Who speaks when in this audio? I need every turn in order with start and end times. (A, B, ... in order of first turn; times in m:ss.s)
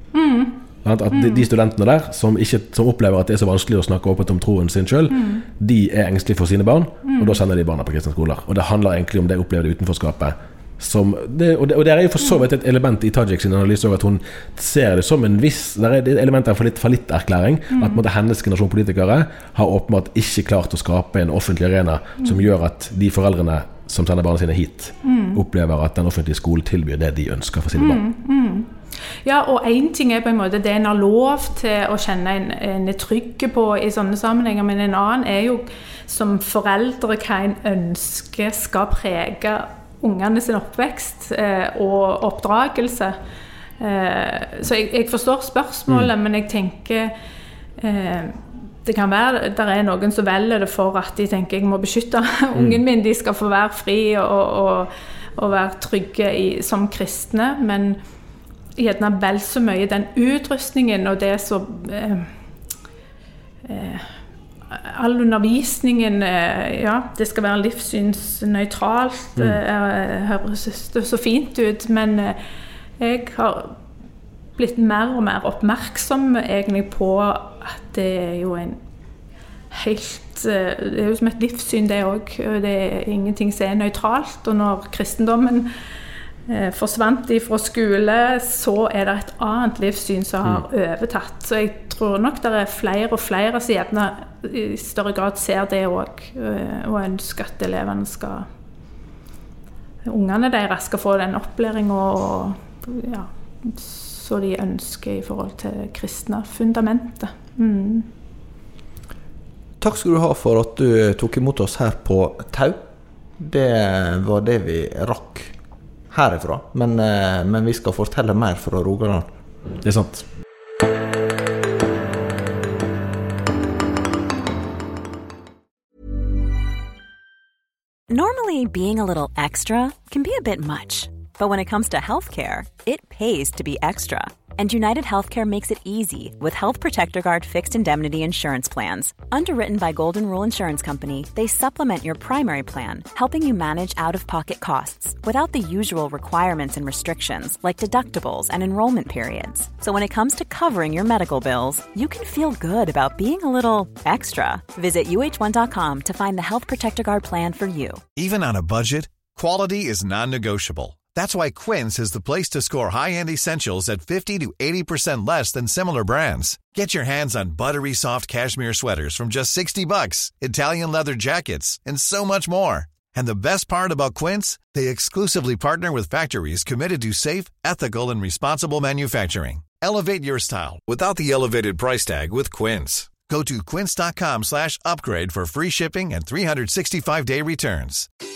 0:00.1-0:00.6 A
0:00.8-0:28.0 B
0:01.1-0:01.5 A
0:05.1-0:05.4 A
0:07.0-0:07.4 A
0:17.7-0:18.0 A
0:25.0-0:25.4 A
0:27.8-0:28.7 A
0:29.2-0:43.2 A
0:43.8-0:47.1 A
0:47.8-0:58.0 A
0:52.6-0:52.8 B
0:58.8-1:02.3 A
1:03.6-1:04.1 A
1:04.7-1:12.4 A
1:13.0-1:13.8 A
1:14.6-1:18.8 A
1:19.7-1:25.7 A
1:26.5-1:38.5 A
1:40.0-1:48.1 A
1:49.8-1:52.8 C
1:53.4-1:55.5 C
1:56.1-1:59.3 C
1:59.8-2:00.3 B
2:08.1-2:38.0 D
2:38.2-3:08.1 E